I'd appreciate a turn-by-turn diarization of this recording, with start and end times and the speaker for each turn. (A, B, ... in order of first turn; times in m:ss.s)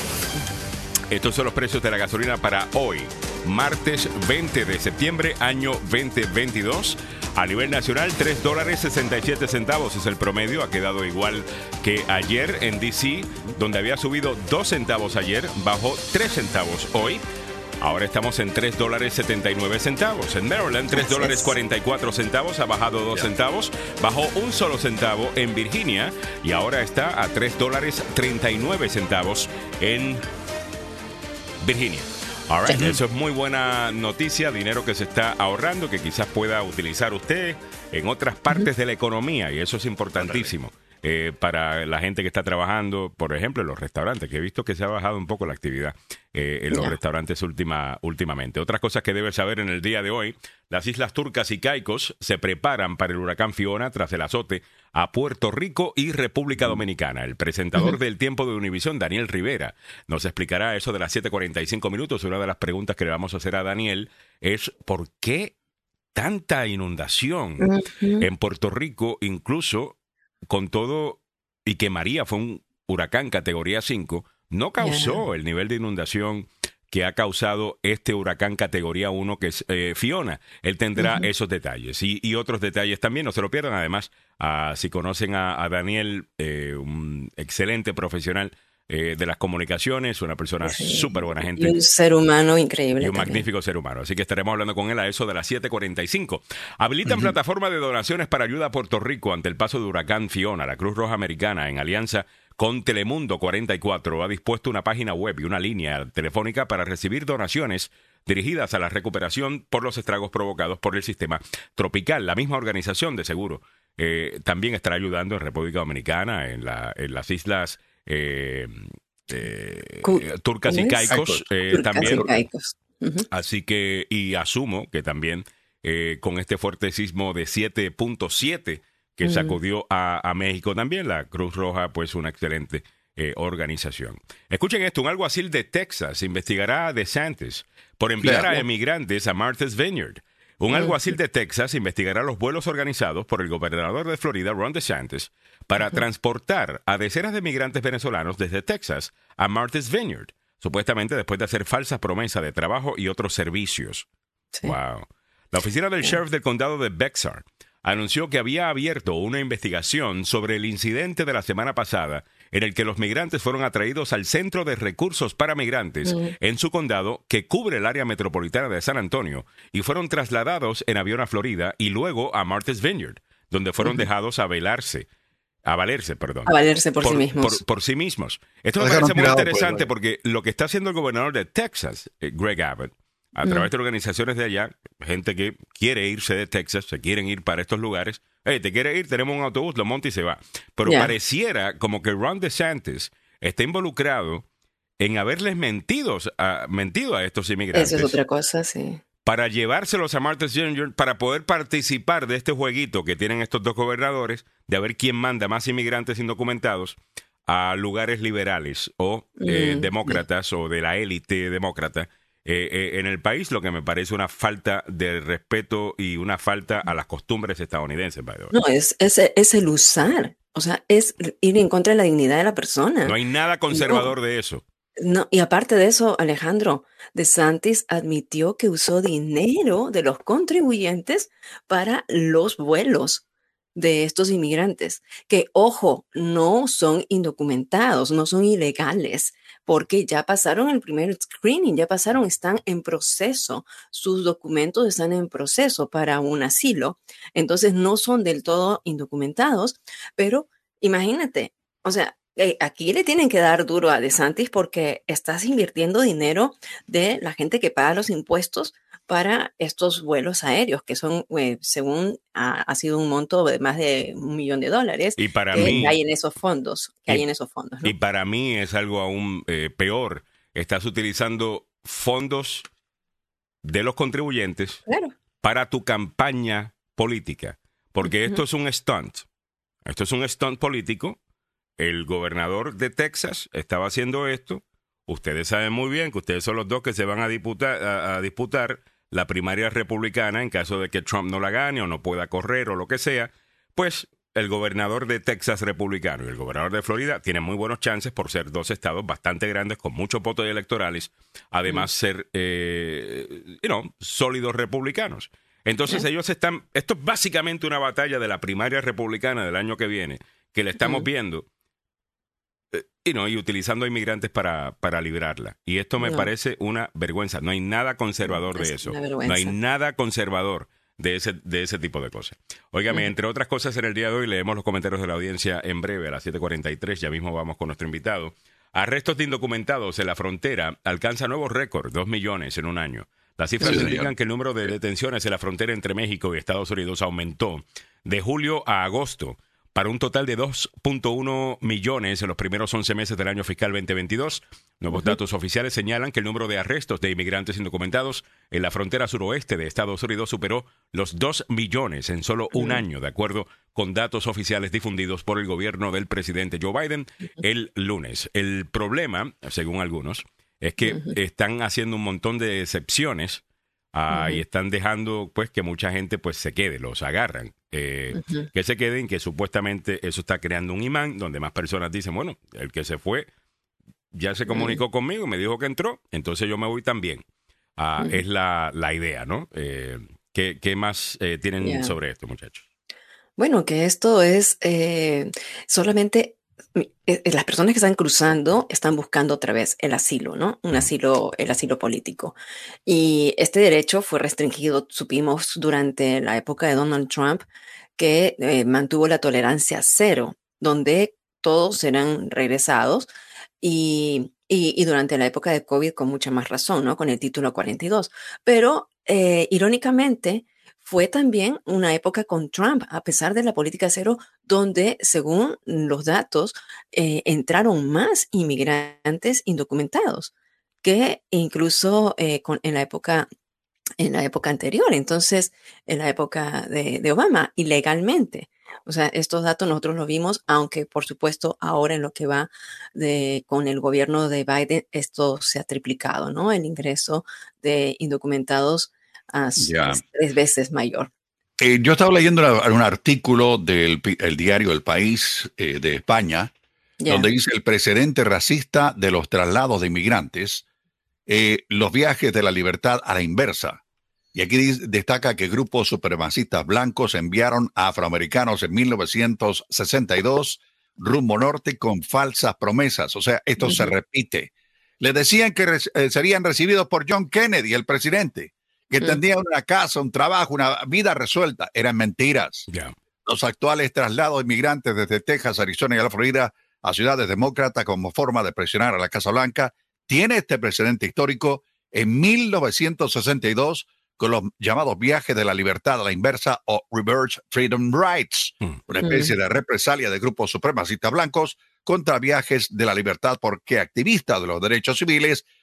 0:01.1-0:17.2 A
0:17.8-0:30.2 A
0:20.9-0:21.5 B
0:31.6-1:05.6 A
0:40.2-0:40.5 C
1:06.1-1:07.7 A
1:07.6-1:08.3 B
1:08.2-1:10.0 A
1:10.5-1:31.8 A
1:14.8-1:15.2 B
1:21.0-1:21.3 B
1:30.6-1:33.5 B
1:33.0-2:02.3 A
2:00.0-2:01.1 B
2:01.1-2:02.3 C
2:01.7-2:03.3 B
2:03.3-2:34.1 A
2:09.2-2:09.6 B
2:20.7-2:21.0 B
2:34.6-2:55.1 A
2:46.1-2:46.3 B
2:55.7-3:14.4 A
2:56.5-2:57.6 B
2:58.8-2:59.9 C
3:10.9-3:11.1 B
3:15.0-3:18.2 A
3:17.7-3:19.0 B
3:19.2-3:38.5 A
3:29.4-3:30.2 B
3:38.5-3:43.2 B
3:43.0-3:44.6 A
3:43.7-3:44.1 B
3:45.0-3:53.2 B
3:53.8-4:27.9 B
4:25.2-4:26.0 A
4:27.8-4:32.7 A
4:33.6-4:34.8 A
4:34.9-4:35.1 B
4:35.4-4:39.2 A
4:38.0-4:38.4 B
4:39.9-4:41.2 A
4:41.8-5:11.4 A
5:10.8-5:11.1 B
5:12.7-6:03.4 A
5:16.0-5:16.3 B
5:18.3-5:19.6 B
5:33.6-5:34.1 C
5:44.9-5:45.2 B
5:52.6-5:52.8 B
6:00.9-6:01.2 B
6:03.9-6:13.3 A
6:04.1-6:04.4 B
6:08.1-6:08.5 B
6:14.1-6:17.2 A
6:14.5-6:14.8 B
6:17.8-6:22.6 A
6:21.6-6:21.9 B
6:23.4-6:37.4 B
6:38.0-6:43.1 B
6:43.6-7:00.3 B
7:00.8-7:03.3 B
7:04.0-7:21.1 B
7:19.6-7:20.0 C
7:21.6-7:26.5 C
7:27.0-7:27.3 B
7:27.1-7:30.6 C
7:31.3-7:33.8 C
7:34.3-7:52.7 C
7:43.6-7:43.9 B
7:52.7-7:52.9 A
7:53.2-8:15.4 C
8:09.0-8:09.3 B